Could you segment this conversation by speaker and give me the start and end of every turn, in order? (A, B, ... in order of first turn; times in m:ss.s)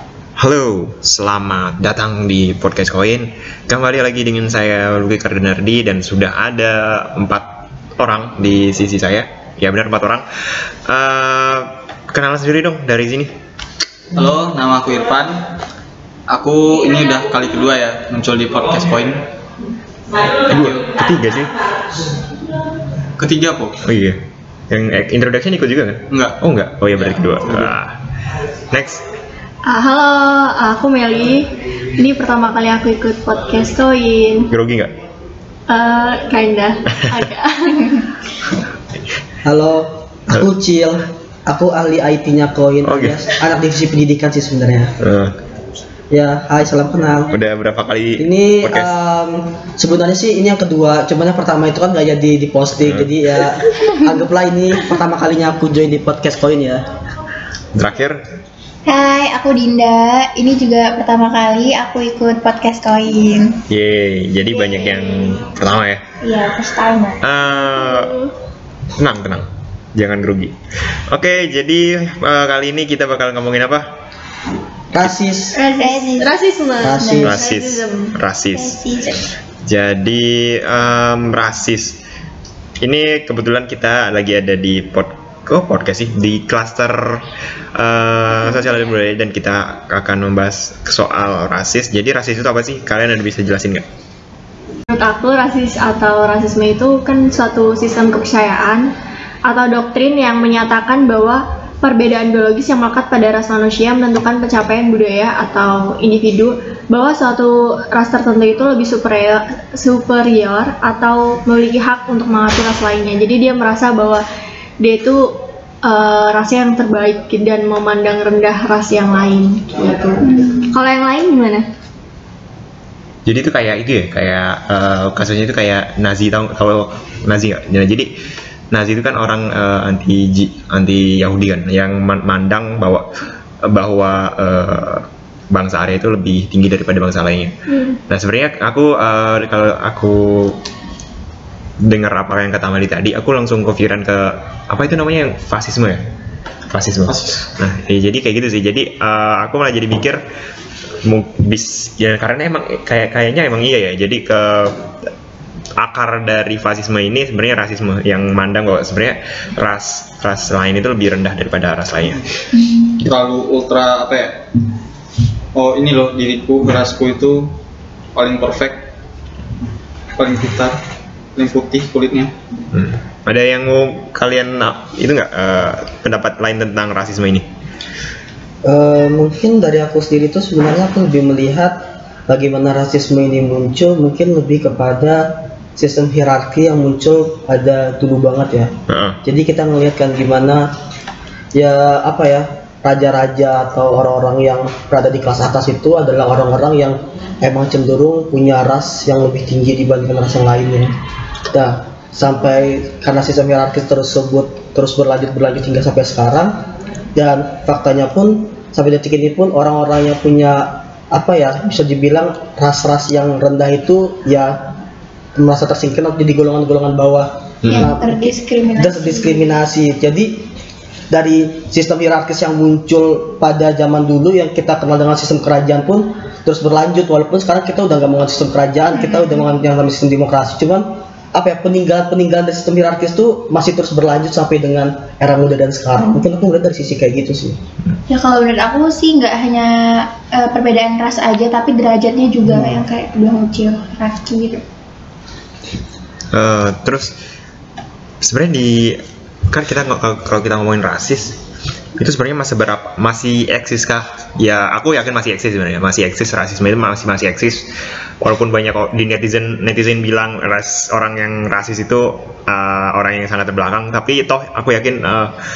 0:00.4-0:10.2 A
0:10.9-0:13.3 A
0:14.1-0:15.4 B
0:16.3-0:19.2 B
0:20.5-0:21.6 A
0:20.5-0:20.8 B
0:23.2-0:23.8 B
0:23.8-0:28.0 A
0:26.1-0:26.4 B
0:27.0-0:27.7 B
0:28.7-0:29.0 A
0:29.6-0:34.5 C
0:34.5-0:34.9 A
0:35.7-0:38.1 C
0:39.4-0:45.0 D
0:42.9-0:43.3 A
0:45.0-0:45.4 A
0:46.1-0:47.3 D
0:47.3-0:48.9 A
0:48.2-0:56.8 D
0:52.8-0:53.1 A
0:57.7-0:58.2 A
0:58.9-1:03.6 E
1:03.7-1:06.0 A
1:04.7-1:05.3 C
1:06.2-1:07.2 E
1:07.2-1:08.1 A
1:07.7-1:08.3 C
1:09.0-1:10.6 A
1:11.1-1:13.9 A
1:14.9-1:15.6 D
1:15.6-1:16.4 E
1:15.6-1:18.1 C
1:16.8-1:17.4 D
1:16.9-1:17.3 E
1:17.2-1:18.8 A
1:18.5-1:19.2 E
1:19.6-1:22.0 A
1:22.8-1:33.8 A
1:34.9-1:38.9 C
1:39.4-1:54.2 C
1:54.8-2:01.6 C
2:00.2-2:00.7 E
2:03.2-2:08.1 A
2:08.7-2:13.0 A
2:13.6-2:20.6 A
2:21.8-2:26.0 A
2:26.7-2:30.2 A
2:27.1-2:27.4 B
2:31.0-2:34.8 A
2:35.8-2:42.2 A
2:43.0-2:44.4 B
2:45.5-2:47.5 B
2:48.2-2:48.9 B
2:50.2-2:50.8 B
2:51.4-2:52.3 B
2:52.7-2:57.4 A
2:58.6-3:10.7 D
3:08.9-3:09.2 A
3:11.5-3:21.0 D
3:21.5-3:34.7 D
3:35.4-3:40.5 D
3:37.6-3:37.9 A
3:37.7-3:39.6 E
3:41.1-3:57.6 D
3:48.9-3:49.5 E
3:58.1-4:04.6 E
4:02.5-4:02.8 D
4:06.3-4:07.1 A
4:08.2-4:11.4 A
4:12.0-4:17.7 A
4:18.2-4:25.4 A